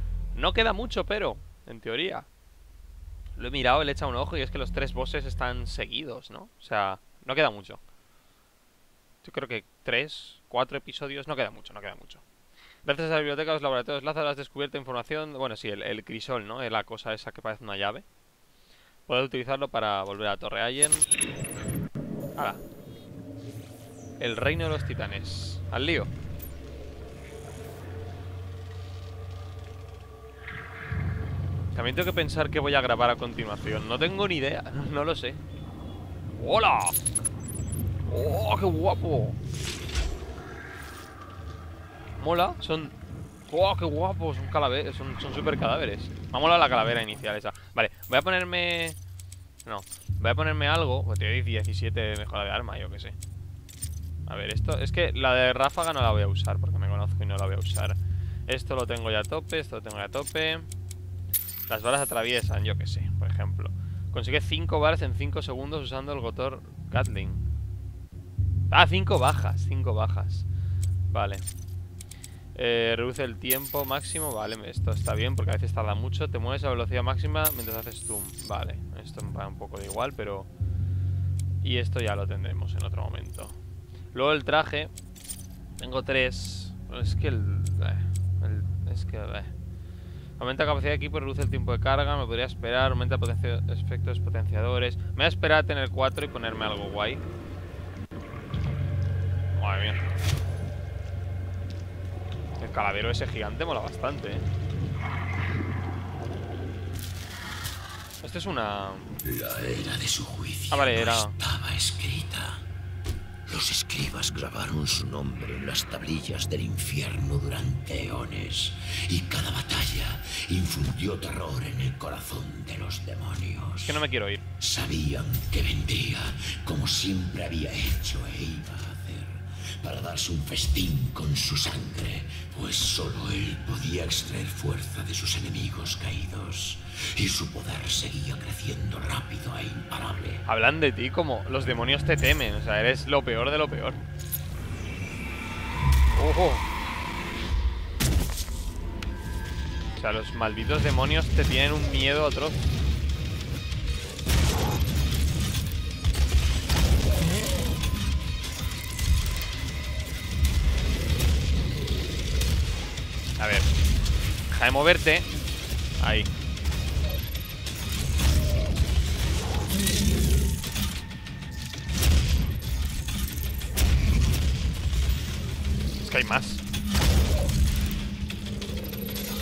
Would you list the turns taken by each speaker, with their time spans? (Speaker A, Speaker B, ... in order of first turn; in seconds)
Speaker A: 0.3-2.3, 3.4-7.8, 9.2-12.2, 12.8-18.0, 19.1-21.1, 24.2-26.1, 31.7-35.4, 36.4-37.0, 38.1-39.4, 42.2-42.9, 43.5-49.0, 49.7-53.1, 54.3-58.0, 58.5-60.7, 61.7-67.4, 68.7-70.5, 71.1-71.5, 72.5-80.5, 81.6-83.5, 84.1-84.9, 85.8-89.5, 90.4-97.2, 99.5-100.0, 102.6-104.4, 108.2-109.2, 110.7-111.3, 123.8-124.4, 140.5-144.0, 146.1-146.6, 150.0-152.6, 163.4-163.7, 164.5-165.3, 166.0-166.3, 176.0-176.6
Speaker B: 109.2-112.7, 113.5-124.0, 124.6-140.4